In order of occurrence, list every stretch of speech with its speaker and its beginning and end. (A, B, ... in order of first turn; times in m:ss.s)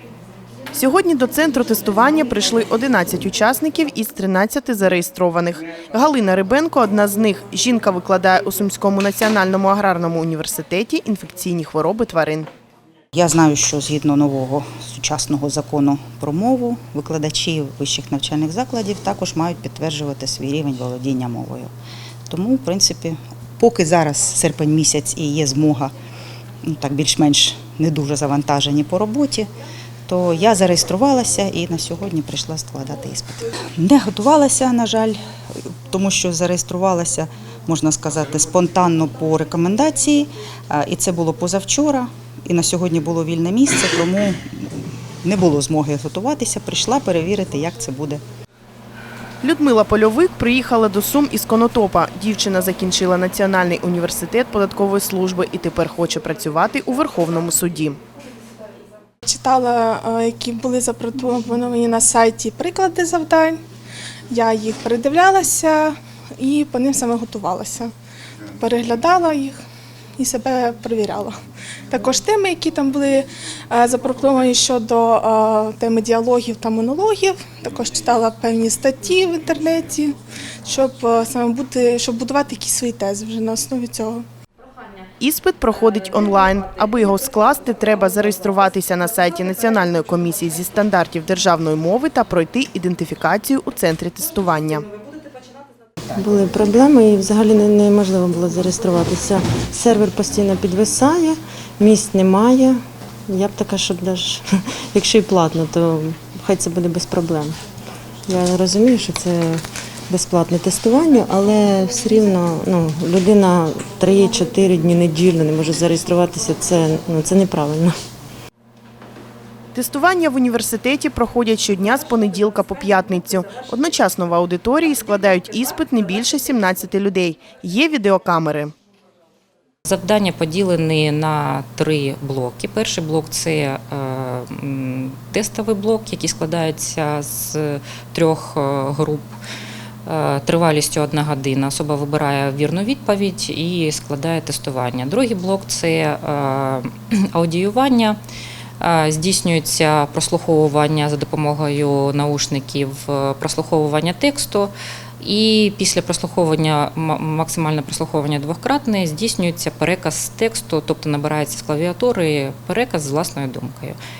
0:00.7-0:12.5 A
0:13.1-0:21.7 B
0:22.3-0:25.9 B
0:26.6-0:29.5 B
0:30.1-0:35.2 B
0:35.8-0:48.2 B
0:49.4-0:58.0 A
0:59.2-1:03.6 C
1:04.3-1:07.9 C
1:08.6-1:09.6 C
1:10.2-1:11.4 C
1:11.9-1:24.2 C
1:25.2-1:34.9 A
1:36.2-1:47.5 D
1:48.3-1:57.9 D
1:59.7-2:08.7 A
2:09.9-2:19.3 E
2:20.0-2:28.2 E
2:28.8-2:44.0 E